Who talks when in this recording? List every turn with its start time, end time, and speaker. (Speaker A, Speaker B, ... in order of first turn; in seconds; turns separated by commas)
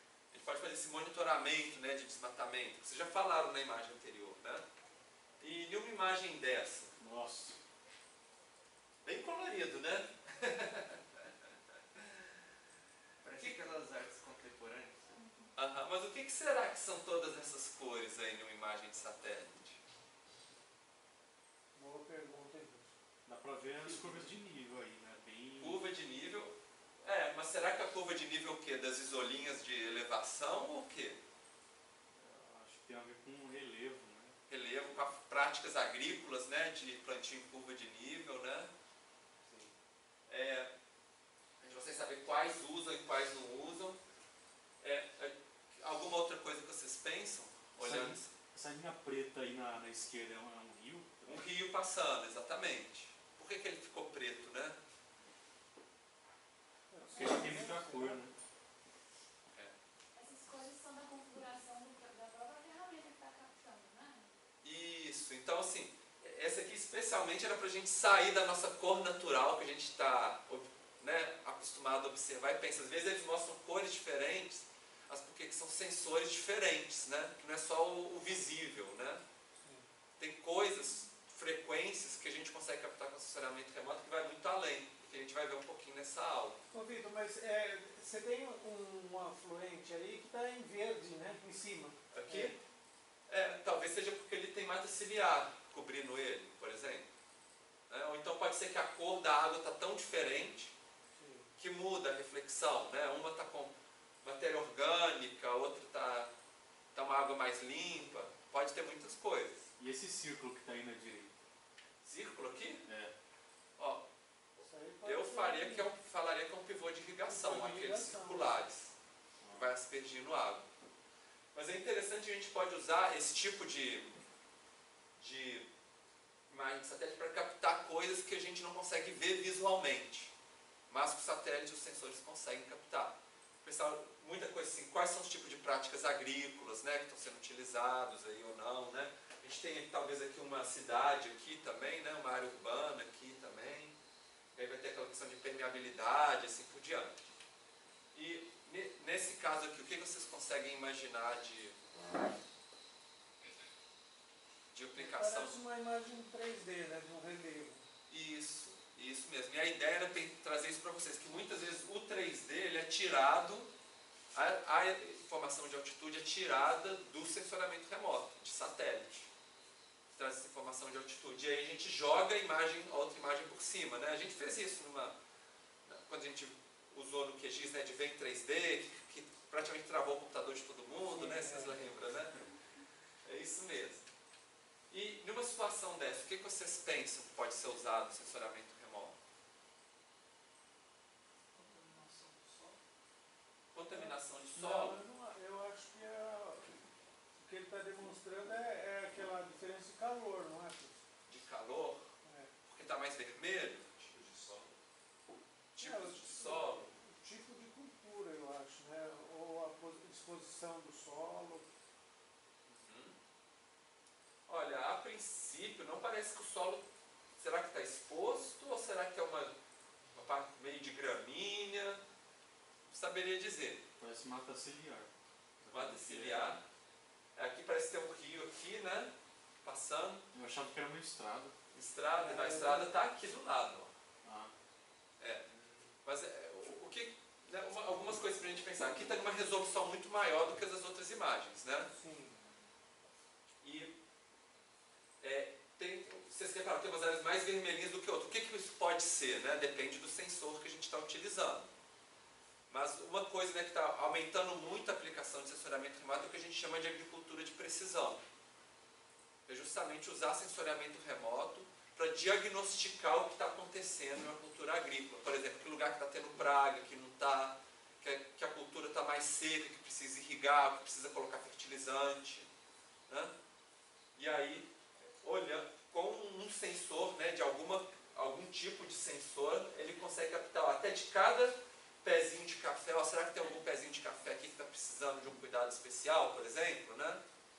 Speaker A: 0.3-4.6, Speaker A: 5.4-7.0, Speaker B: 7.0-7.6, Speaker A: 9.0-11.0, Speaker C: 13.2-15.2, Speaker A: 13.4-13.7, Speaker D: 15.2-15.5, Speaker A: 15.6-19.8, Speaker E: 21.8-22.9, Speaker B: 23.3-25.8, Speaker E: 23.8-24.2, Speaker A: 25.6-31.2, Speaker B: 32.2-34.4, Speaker A: 34.5-38.7, Speaker A: 40.3-40.7, Speaker A: 41.6-44.0, Speaker A: 44.8-48.3, Speaker B: 47.8-51.5, Speaker A: 51.3-54.8, Speaker E: 56.9-58.3, Speaker B: 57.1-58.3, Speaker D: 60.1-64.3, Speaker A: 64.6-79.2, Speaker E: 79.6-79.9, Speaker A: 80.2-86.6, Speaker E: 86.7-92.5, Speaker A: 92.1-92.6, Speaker A: 93.3-97.1, Speaker A: 97.9-100.7, Speaker E: 101.2-101.5, Speaker A: 101.6-106.3, Speaker A: 106.9-109.7, Speaker B: 109.8-111.4, Speaker A: 112.0-112.8, Speaker B: 112.8-113.1, Speaker A: 113.8-114.1, Speaker E: 114.6-115.9, Speaker A: 115.0-118.9, Speaker E: 117.3-118.6, Speaker B: 119.4-119.7, Speaker A: 119.5-120.7, Speaker A: 121.5-124.2, Speaker A: 125.2-125.7, Speaker A: 126.5-130.3, Speaker A: 130.9-143.9, Speaker A: 144.6-147.3, Speaker A: 148.2-151.8, Speaker A: 154.7-155.6, Speaker E: 155.0-157.8, Speaker A: 158.1-163.7, Speaker A: 164.3-169.3, Speaker A: 170.2-175.2, Speaker A: 175.9-182.4, Speaker E: 181.1-181.8, Speaker A: 183.2-184.0, Speaker A: 184.9-189.2, Speaker A: 191.6-192.8, Speaker A: 193.7-195.0, Speaker E: 193.9-196.7, Speaker E: 197.4-200.9, Speaker A: 201.3-202.1, Speaker E: 202.2-202.5, Speaker A: 202.7-204.7, Speaker A: 205.8-206.9, Speaker E: 205.8-211.7, Speaker A: 212.7-213.2, Speaker A: 214.5-216.8, Speaker A: 217.4-219.6, Speaker A: 220.2-222.0, Speaker A: 222.9-223.9, Speaker B: 224.0-225.1, Speaker B: 225.6-226.6, Speaker A: 225.7-226.6, Speaker A: 227.4-230.3, Speaker B: 230.3-231.6, Speaker A: 231.7-233.9, Speaker E: 232.2-232.9, Speaker B: 234.2-234.5, Speaker A: 236.0-241.9, Speaker E: 241.9-242.4, Speaker A: 243.6-243.9, Speaker A: 245.2-251.7, Speaker A: 252.7-258.2, Speaker A: 259.5-272.5, Speaker A: 274.2-274.7, Speaker A: 275.2-287.2